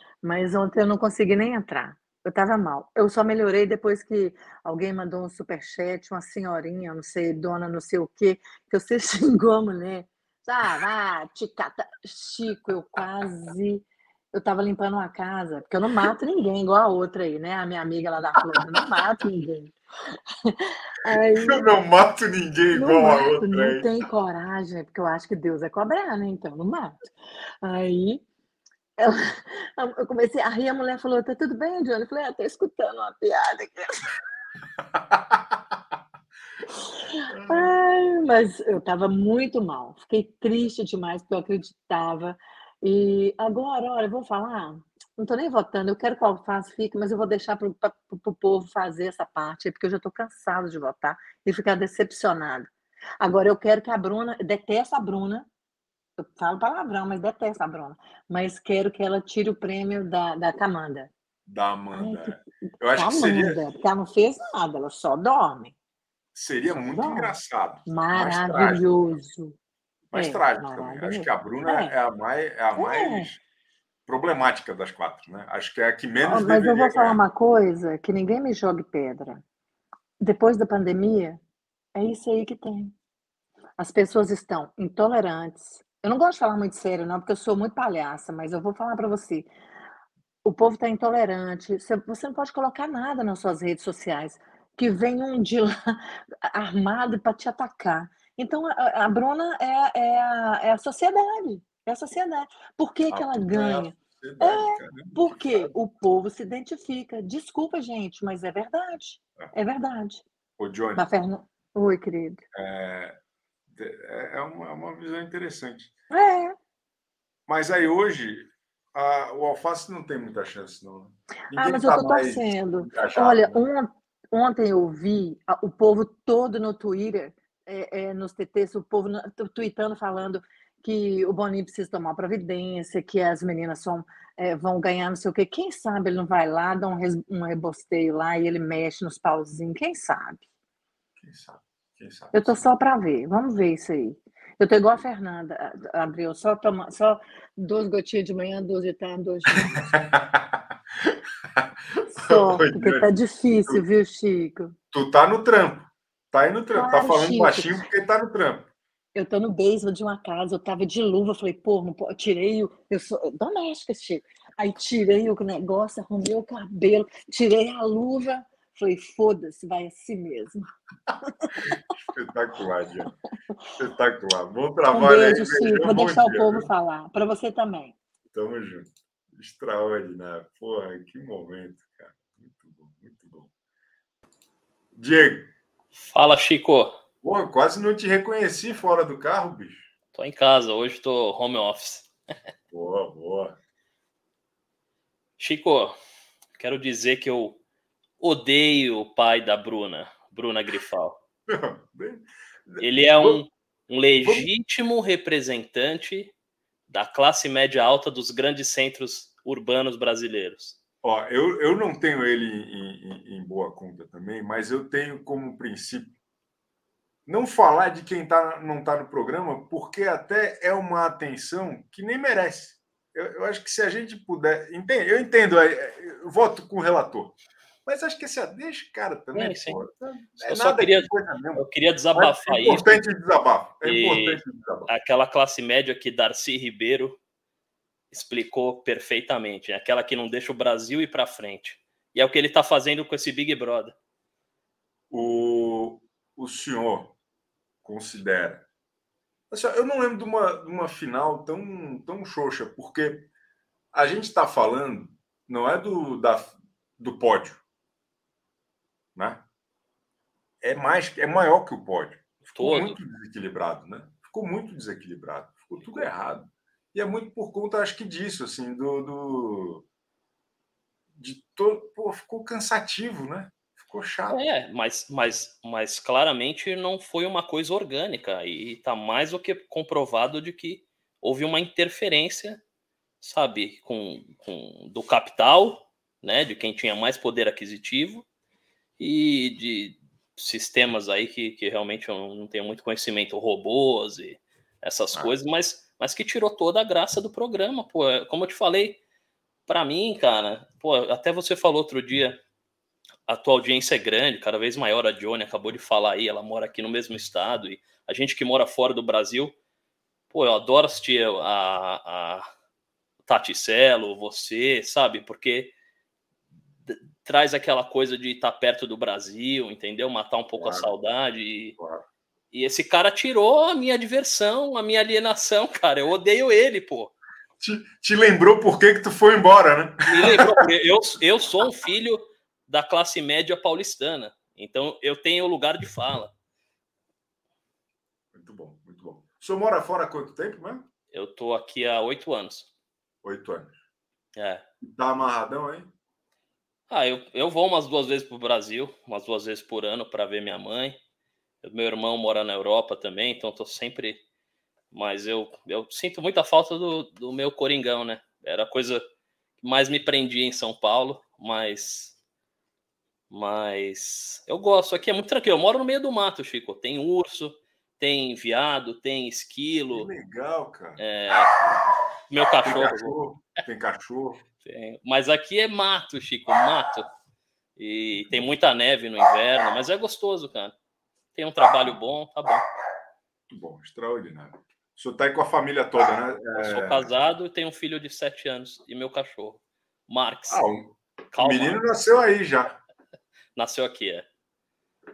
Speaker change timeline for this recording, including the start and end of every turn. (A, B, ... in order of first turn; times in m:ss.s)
0:00.2-0:19.8 A
0:20.4-0:21.7 A
0:21.1-0:23.9 B
0:22.7-0:27.1 A
0:27.6-0:28.2 A
0:29.0-0:33.9 A
0:34.9-0:35.4 B
0:37.3-0:37.7 B
0:37.4-0:55.5 A
0:56.2-1:01.1 A
1:01.5-1:03.6 B
1:01.9-1:02.4 A
1:02.9-1:05.7 A
1:06.4-1:09.2 B
1:06.9-1:07.3 A
1:07.9-1:09.6 A
1:10.1-1:13.4 B
1:10.2-1:11.9 A
1:12.8-1:13.3 A
1:14.1-1:17.2 B
1:16.2-1:19.4 A
1:20.2-1:21.4 A
1:22.0-1:22.9 A
1:23.8-1:29.5 A
1:30.4-1:50.2 A
1:43.1-1:45.7 B
1:50.6-1:51.1 B
1:51.0-1:52.4 A
1:52.5-1:53.2 B
1:53.7-1:55.9 B
1:56.1-1:56.6 A
1:57.5-2:03.6 B
2:01.5-2:20.5 A
2:21.2-2:22.7 B
2:22.3-2:29.9 A
2:29.7-2:33.1 B
2:32.2-2:34.7 A
2:34.9-2:38.7 B
2:36.7-2:37.8 A
2:39.2-2:50.6 A
2:51.7-2:53.1 B
2:53.8-2:56.7 B
2:54.9-2:58.0 A
2:58.3-3:03.5 B
3:04.9-3:05.5 B
3:06.1-3:07.0 C
3:07.2-3:09.9 B
3:10.1-3:12.1 C
3:12.7-3:13.6 B
3:15.4-3:16.0 C
3:16.6-3:17.6 C
3:18.2-3:21.2 C
3:21.5-3:23.4 B
3:22.8-3:26.3 C
3:24.2-3:24.5 B
3:26.9-3:30.8 C
3:31.0-3:36.1 B
3:37.3-3:54.9 B
3:49.4-3:49.8 C
3:50.4-3:53.0 C
3:53.8-3:57.2 C
3:58.1-4:04.0 C
4:05.1-4:07.2 B
4:07.8-4:08.7 B
4:09.5-4:13.3 B
4:13.9-4:17.6 B
4:19.2-4:19.4 B
4:20.6-4:29.8 B
4:22.6-4:23.0 C
4:31.2-4:34.4 B
4:34.3-4:42.6 C
4:43.2-4:48.2 C
4:49.0-4:59.0 C
4:59.7-5:02.4 C
5:03.3-5:09.6 C
5:10.3-5:12.5 C
5:13.2-5:15.7 C
5:16.9-5:21.8 C
5:20.6-5:20.9 B
5:21.8-5:22.0 B
5:22.5-5:27.1 C
5:27.6-5:30.6 B
5:30.1-5:36.3 C
5:38.3-5:40.9 B
5:41.1-5:42.7 C
5:43.2-5:43.8 B
5:44.4-5:44.6 C
5:44.8-5:45.9 B
5:46.9-5:51.0 C
5:51.6-5:54.2 C
5:54.9-5:59.0 C
5:59.6-6:02.2 C
6:03.3-6:10.1 C
6:09.9-6:11.0 B
6:11.0-6:11.6 C
6:12.3-6:13.2 C
6:12.6-6:14.4 B
6:14.6-6:17.1 C
6:17.8-6:20.8 C
6:21.3-6:22.6 C
6:23.5-6:27.1 B
6:26.5-6:30.6 C
6:30.5-6:32.7 B
6:31.3-6:31.8 C
6:33.6-6:34.3 C